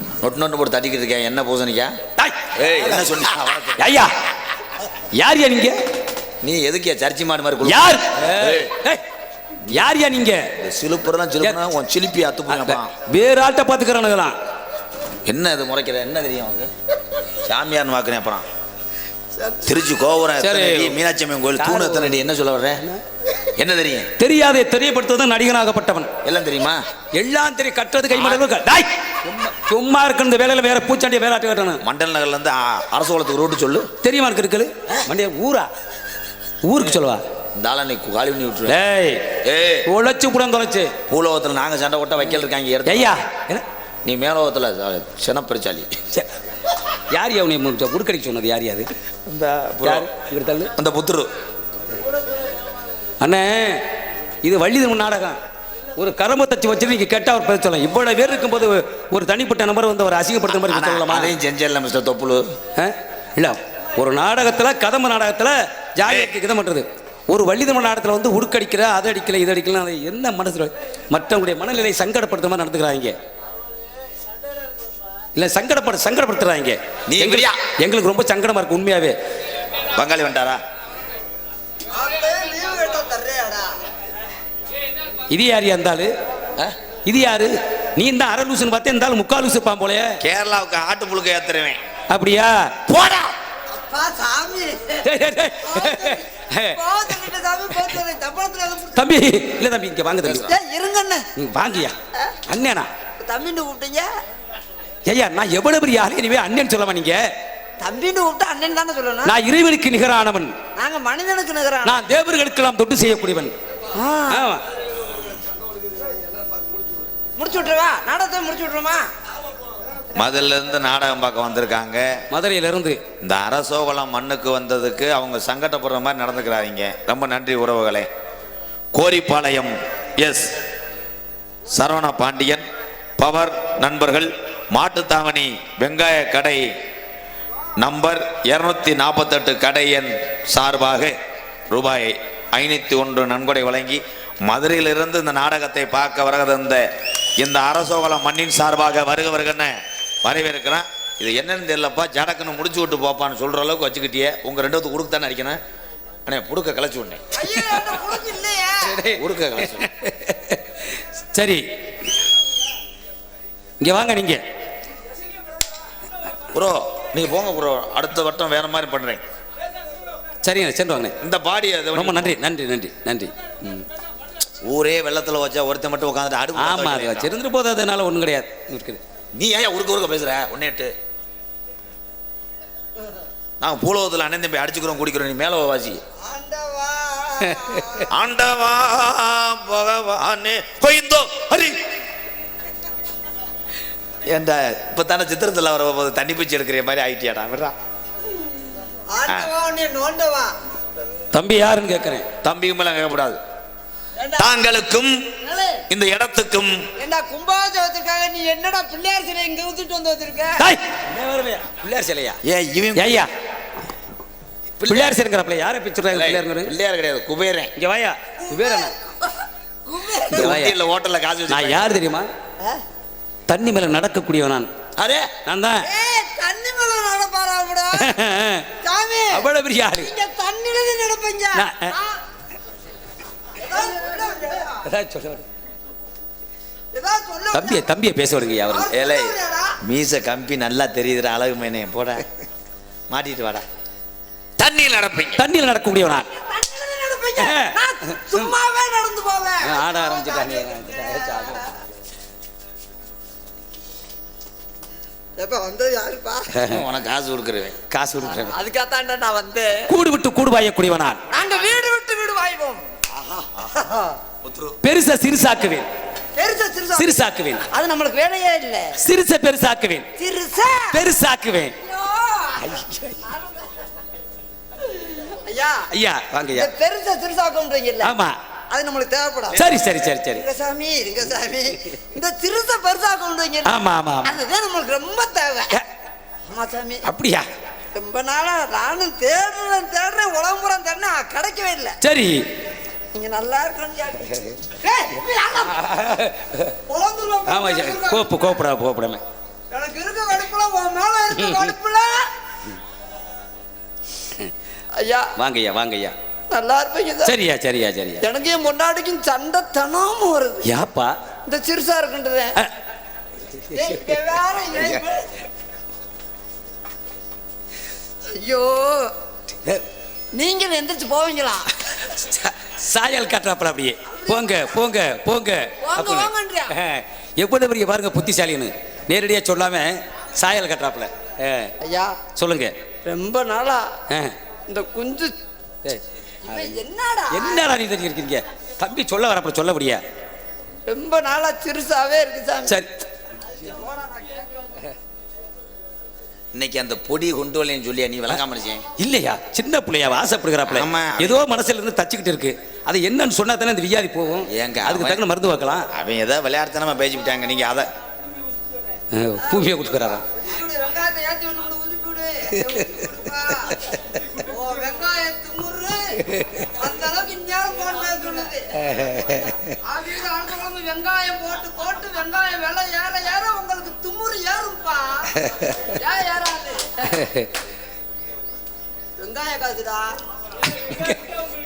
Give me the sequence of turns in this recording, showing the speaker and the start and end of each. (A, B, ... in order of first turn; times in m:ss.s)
0:00.2-0:02.0 A
0:02.2-0:03.1 B
0:02.6-0:04.0 A
0:03.8-0:04.1 B
0:05.1-0:05.8 B
0:06.4-0:08.7 A
0:07.6-0:09.0 B
0:09.7-0:10.5 B
0:10.6-0:12.9 A
0:12.5-0:14.4 B
0:15.3-0:16.7 A
0:17.4-0:18.5 A
0:19.6-0:22.8 A
0:20.4-0:21.0 B
0:21.6-0:22.3 B
0:23.6-0:24.1 A
0:24.2-0:26.1 B
0:26.2-0:26.8 A
0:27.2-0:31.8 B
0:31.8-0:33.9 A
0:34.0-0:35.7 B
0:36.6-0:37.2 B
0:37.6-0:38.8 A
0:38.7-0:39.3 B
0:39.4-0:39.9 A
0:39.9-0:41.0 B
0:41.1-0:43.2 A
0:42.9-0:43.6 B
0:44.0-0:46.0 A
0:47.1-0:48.9 B
0:49.3-0:50.1 A
0:49.8-0:50.7 B
0:50.8-0:51.3 A
0:53.2-0:53.8 B
0:54.4-0:55.4 B
0:56.0-1:01.3 B
1:00.5-1:02.5 A
1:02.8-1:13.2 B
1:06.0-1:06.3 A
1:15.4-1:19.2 B
1:17.1-1:17.6 A
1:20.0-1:20.6 A
1:21.9-1:23.7 C
1:25.3-1:26.1 B
1:27.1-1:30.2 B
1:30.2-1:31.8 A
1:32.1-1:32.8 B
1:32.9-1:33.3 A
1:33.7-1:35.1 C
1:35.0-1:37.2 B
1:35.6-1:39.1 C
1:39.0-1:40.5 B
1:40.2-1:40.5 A
1:40.4-1:41.3 C
1:41.4-1:42.0 B
1:42.5-1:42.9 B
1:43.2-1:44.1 C
1:45.1-1:47.3 B
1:47.8-1:49.3 C
1:49.3-1:50.6 B
1:50.8-1:52.0 C
1:51.8-1:53.5 B
1:53.9-1:54.5 C
1:54.3-1:54.6 B
1:57.4-1:59.1 C
2:00.2-2:02.2 A
2:02.3-2:03.0 B
2:03.2-2:08.1 A
2:09.0-2:10.5 A
2:11.7-2:12.6 A
2:13.2-2:16.7 A
2:17.8-2:21.2 A
2:21.7-2:26.9 A
2:27.4-2:35.6 A
2:36.3-2:37.2 A
2:37.3-2:39.0 C
2:38.8-2:41.6 B
2:39.2-2:39.9 A
2:43.8-2:44.4 B
2:46.5-2:49.2 A
2:50.4-2:51.2 B
2:51.2-2:52.4 A
2:52.0-2:53.9 B
2:54.6-2:57.3 A
2:56.6-2:59.0 B
2:59.4-3:00.9 A
3:03.6-3:06.0 A
3:06.2-3:08.1 C
3:07.8-3:08.0 B
3:08.1-3:11.8 A
3:14.3-3:17.7 A
3:19.1-3:20.5 C
3:21.3-3:22.3 B
3:22.4-3:23.4 A
3:24.2-3:24.5 C
3:24.4-3:25.2 A
3:25.4-3:25.8 C
3:25.9-3:26.8 A
3:27.0-3:30.6 C
3:30.6-3:32.4 B
3:32.4-3:33.3 A
3:33.0-3:33.3 B
3:34.8-3:35.2 A
3:34.9-3:36.7 B
3:36.1-3:37.7 A
3:37.8-3:38.9 B
3:38.4-3:39.3 C
3:39.9-3:40.5 C
3:40.3-3:40.8 B
3:40.4-3:42.0 A
3:41.5-3:42.3 B
3:43.5-3:44.7 B
3:45.0-3:45.4 A
3:45.4-3:45.9 B
3:45.8-3:48.1 C
3:47.9-3:48.7 B
3:48.8-3:49.5 C
3:49.3-3:50.1 B
3:50.0-3:52.2 C
3:51.6-3:52.0 B
3:53.6-3:54.8 C
3:54.8-3:55.5 B
3:57.0-3:57.9 C
3:57.5-3:58.9 B
3:58.7-3:59.8 C
3:58.9-4:02.3 A
4:03.1-4:03.6 A
4:04.6-4:05.4 A
4:05.4-4:06.3 B
4:06.2-4:11.7 C
4:07.4-4:07.8 B
4:09.6-4:11.7 B
4:15.4-4:16.5 C
4:16.6-4:16.8 B
4:16.7-4:17.8 A
4:17.9-4:18.5 B
4:18.2-4:19.9 C
4:19.9-4:21.2 B
4:21.3-4:22.8 C
4:23.4-4:24.2 C
4:24.4-4:24.8 A
4:24.8-4:25.9 B
4:26.4-4:29.0 C
4:27.0-4:27.6 B
4:29.0-4:30.1 B
4:30.2-4:31.0 C
4:30.9-4:31.8 B
4:31.8-4:33.7 C
4:32.6-4:33.2 B
4:35.3-4:35.9 C
4:35.9-4:36.7 B
4:36.5-4:38.1 C
4:38.0-4:38.4 B
4:38.7-4:39.6 C
4:39.5-4:40.4 B
4:40.3-4:45.8 C
4:43.7-4:44.4 B
4:46.5-4:47.0 C
4:47.0-4:47.5 B
4:47.9-4:52.0 C
4:52.0-4:52.5 B
4:53.1-4:55.8 C
4:55.8-4:56.7 B
4:56.9-4:58.4 C
4:57.5-4:59.2 B
4:59.7-5:02.3 C
5:01.4-5:01.7 B
5:05.0-5:05.3 C
5:05.4-5:06.2 B
5:06.5-5:07.4 C
5:07.2-5:08.2 B
5:08.2-5:10.7 C
5:10.6-5:11.2 B
5:11.5-5:12.6 C
5:13.6-5:13.9 B
5:13.7-5:15.3 C
5:18.4-5:19.1 C
5:20.3-5:21.7 C
5:22.0-5:31.7 B
5:24.1-5:24.7 C
5:25.8-5:26.7 C
5:31.8-5:32.2 C
5:32.4-5:32.7 B
5:33.0-5:34.0 C
5:34.1-5:34.4 B
5:34.7-5:35.3 C
5:35.8-5:36.8 B
5:36.4-5:37.6 C
5:37.3-5:40.0 B
5:40.9-5:42.8 C
5:42.7-5:43.0 B
5:43.5-5:44.7 C
5:46.5-5:48.9 A
5:49.0-5:55.9 B
5:50.7-5:51.4 A
5:54.5-5:55.2 A
5:55.9-5:57.9 A
5:59.1-6:00.2 B
5:59.4-6:03.8 C
6:04.4-6:17.2 C
6:08.8-6:09.6 B
6:15.4-6:15.7 B
6:17.1-6:17.5 B
6:19.2-6:20.2 C
6:20.9-6:21.2 B